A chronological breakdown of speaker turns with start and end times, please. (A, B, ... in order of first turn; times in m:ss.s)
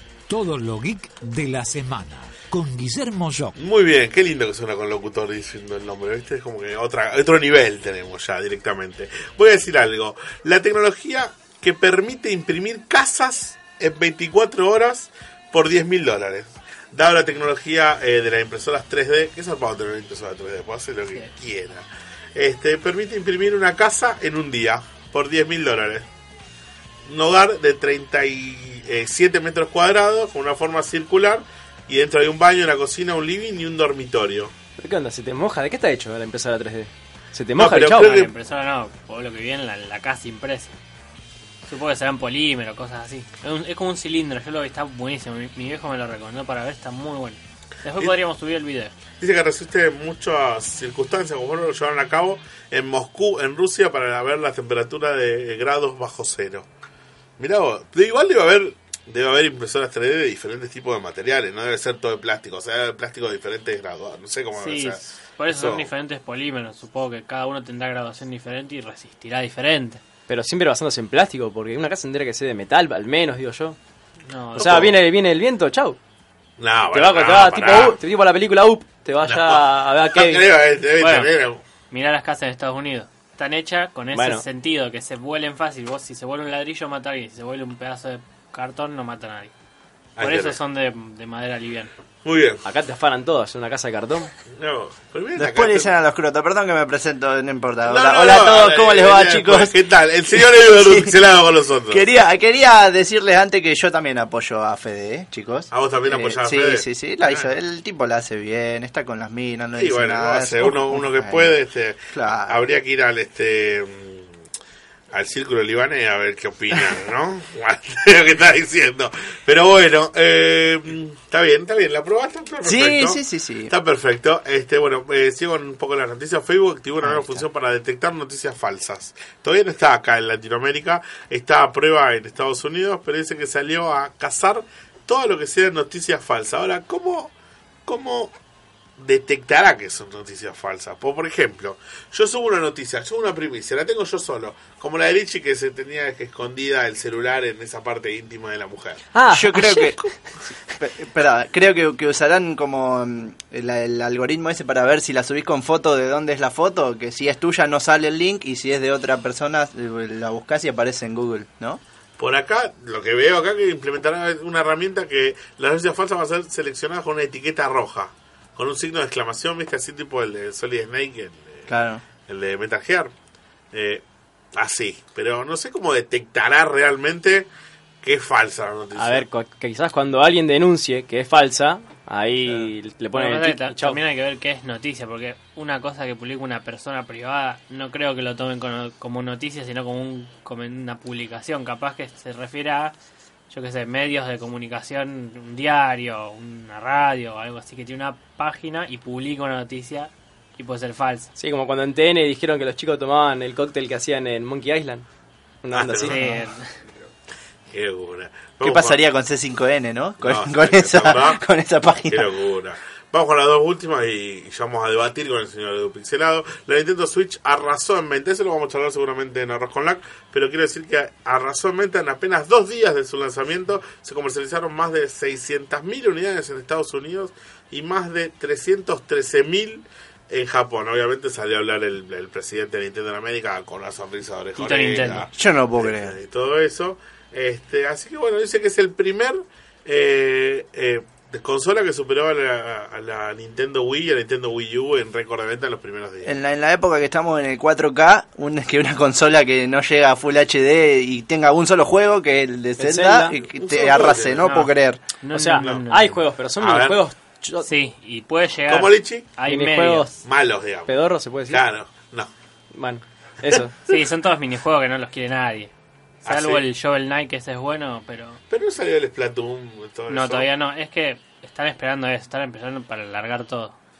0:00.3-0:03.5 A
0:03.6-0:26.1 B
0:27.0-0:34.5 B
0:34.8-0:38.2 C
0:37.6-0:38.3 B
0:37.9-0:40.8 D
0:41.7-0:48.9 D
0:49.2-0:56.7 B
0:57.4-1:05.9 B
1:04.6-1:10.0 D
1:10.3-1:13.8 C
1:14.3-1:14.9 D
1:14.6-1:15.0 B
1:14.6-1:16.0 C
1:16.6-1:18.0 B
1:16.9-1:20.5 C
1:19.2-1:21.6 B
1:21.0-1:21.3 D
1:21.9-1:29.5 D
1:24.1-1:24.4 C
1:30.2-1:30.6 B
1:30.2-1:31.9 D
1:32.2-1:32.6 B
1:32.6-1:34.3 C
1:34.5-1:35.9 B
1:35.3-1:39.8 E
1:37.8-1:42.0 B
1:40.3-1:41.2 E
1:41.9-1:51.6 E
1:45.7-1:47.5 B
1:49.8-1:54.3 B
1:52.1-1:52.6 E
1:55.1-2:17.3 B
2:02.6-2:03.7 E
2:07.0-2:07.4 E
2:17.8-2:18.3 B
2:19.0-2:29.0 B
2:29.1-2:30.0 C
2:29.3-2:30.0 E
2:30.8-2:41.8 E
2:42.2-2:51.7 B
2:51.7-2:52.0 E
2:52.2-2:53.1 B
2:53.7-2:54.0 B
2:54.5-2:57.5 B
2:58.0-2:59.2 B
2:58.9-3:04.0 C
3:03.1-3:12.9 D
3:13.5-3:21.3 D
3:21.4-3:25.0 C
3:25.6-3:26.2 C
3:25.7-3:26.3 B
3:26.1-3:26.6 D
3:27.7-3:29.0 B
3:28.6-3:32.3 E
3:30.2-3:31.4 B
3:32.1-4:06.3 B
3:54.6-3:55.3 D
3:55.3-3:56.1 E
4:06.2-4:15.1 E
4:12.8-4:13.4 C
4:13.4-4:14.6 B
4:14.4-4:16.2 D
4:15.3-4:17.7 C
4:15.5-4:15.8 B
4:16.6-4:17.0 B
4:17.6-4:20.1 D
4:18.7-4:19.3 B
4:19.4-4:20.1 C
4:20.2-4:20.9 B
4:20.9-4:21.6 C
4:21.5-4:22.3 B
4:22.7-4:23.7 C
4:23.9-4:25.7 D
4:26.2-4:26.6 B
4:26.2-4:28.4 D
4:28.5-4:30.5 B
4:30.1-4:33.7 D